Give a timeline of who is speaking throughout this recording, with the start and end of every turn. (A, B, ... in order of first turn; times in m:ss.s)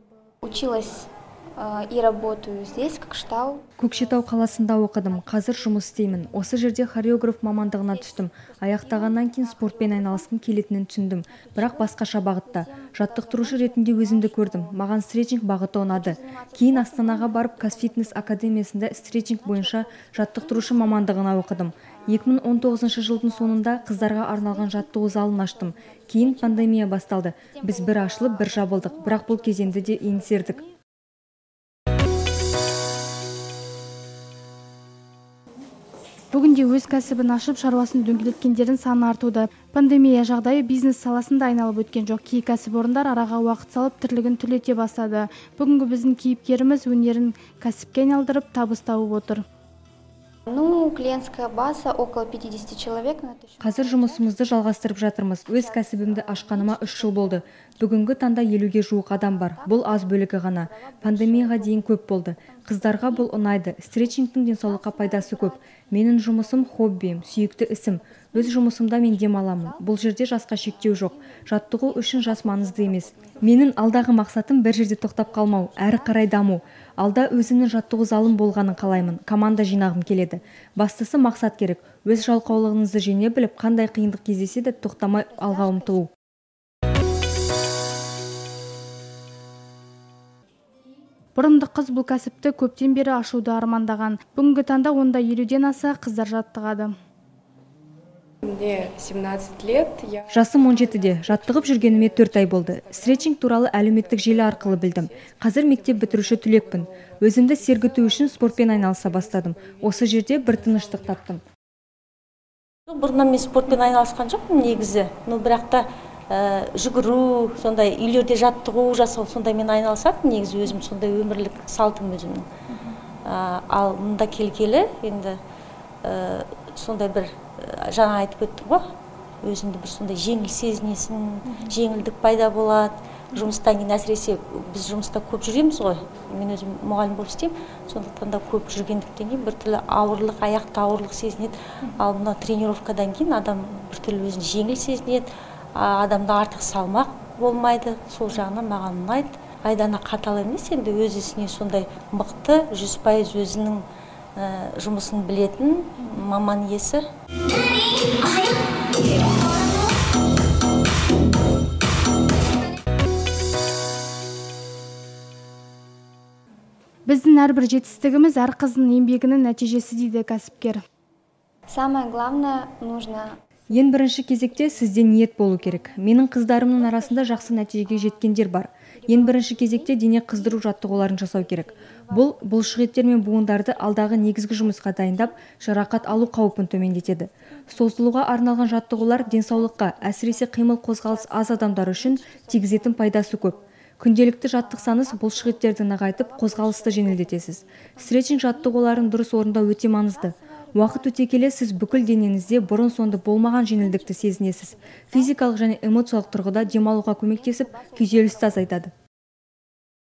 0:00.4-0:03.6 A
0:03.8-0:30.6 B
0:07.8-0:10.3 A
0:11.4-0:14.8 A
0:15.9-0:30.7 A
0:36.3-0:49.4 C
0:50.5-0:54.3 A
0:53.6-1:26.1 B
0:55.5-0:57.4 A
0:59.1-1:03.6 A
1:04.6-1:05.8 A
1:06.4-1:06.9 A
1:07.9-1:09.9 A
1:10.7-1:14.1 A
1:15.2-1:16.3 A
1:25.3-1:26.0 A
1:31.4-1:36.9 C
1:38.4-1:40.3 D
1:40.3-1:51.4 B
1:44.6-1:44.9 D
1:48.7-1:49.3 D
1:52.9-2:02.5 E
2:03.2-2:05.4 E
2:06.0-2:08.8 E
2:09.4-2:33.8 E
2:34.4-2:37.1 E
2:47.1-2:50.8 C
2:51.7-2:53.4 A
2:53.7-3:28.9 B
2:56.8-2:58.2 A
2:59.0-3:13.6 A
3:14.6-3:25.5 A
3:26.3-3:28.8 A